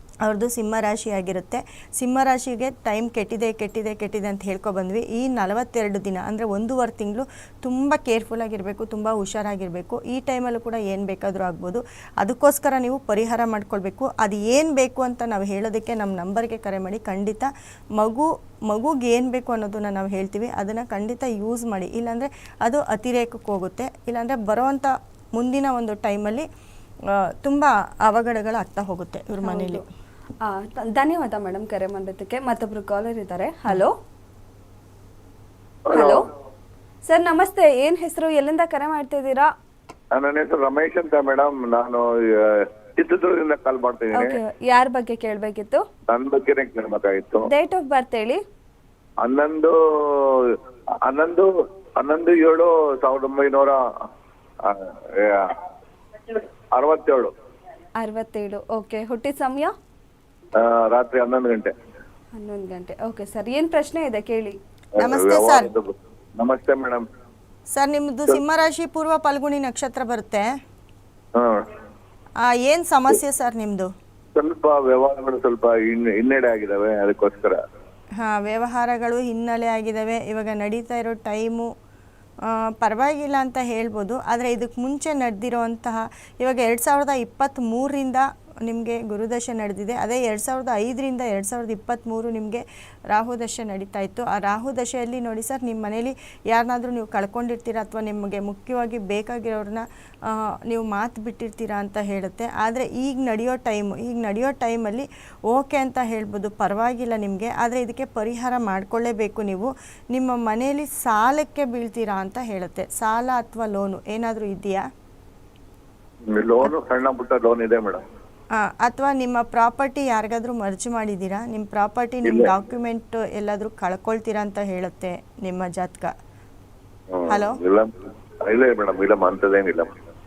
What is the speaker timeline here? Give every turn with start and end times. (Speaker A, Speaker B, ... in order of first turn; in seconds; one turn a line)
Speaker A: 0.2-26.5
Speaker A: 27.1-29.8
Speaker B: 29.4-29.8
Speaker B: 30.4-34.0
Speaker C: 35.9-36.2
Speaker B: 35.9-36.3
Speaker B: 37.1-39.5
Speaker C: 40.2-44.4
Speaker B: 44.1-45.8
Speaker C: 46.1-47.5
Speaker B: 47.5-48.4
Speaker C: 49.2-50.2
Speaker C: 51.1-51.5
Speaker C: 52.0-53.8
Speaker C: 54.6-55.5
Speaker C: 56.8-57.3
Speaker B: 58.0-59.7
Speaker C: 60.6-61.7
Speaker B: 62.4-64.6
Speaker C: 65.0-67.0
Speaker A: 65.0-65.7
Speaker A: 67.7-70.5
Speaker C: 71.4-71.7
Speaker A: 72.5-73.9
Speaker C: 74.3-77.6
Speaker A: 78.2-81.7
Speaker A: 82.4-114.8
Speaker C: 116.3-118.0
Speaker A: 118.5-126.1
Speaker C: 122.2-122.5
Speaker C: 127.1-127.9
Speaker A: 127.3-127.6
Speaker C: 128.4-129.9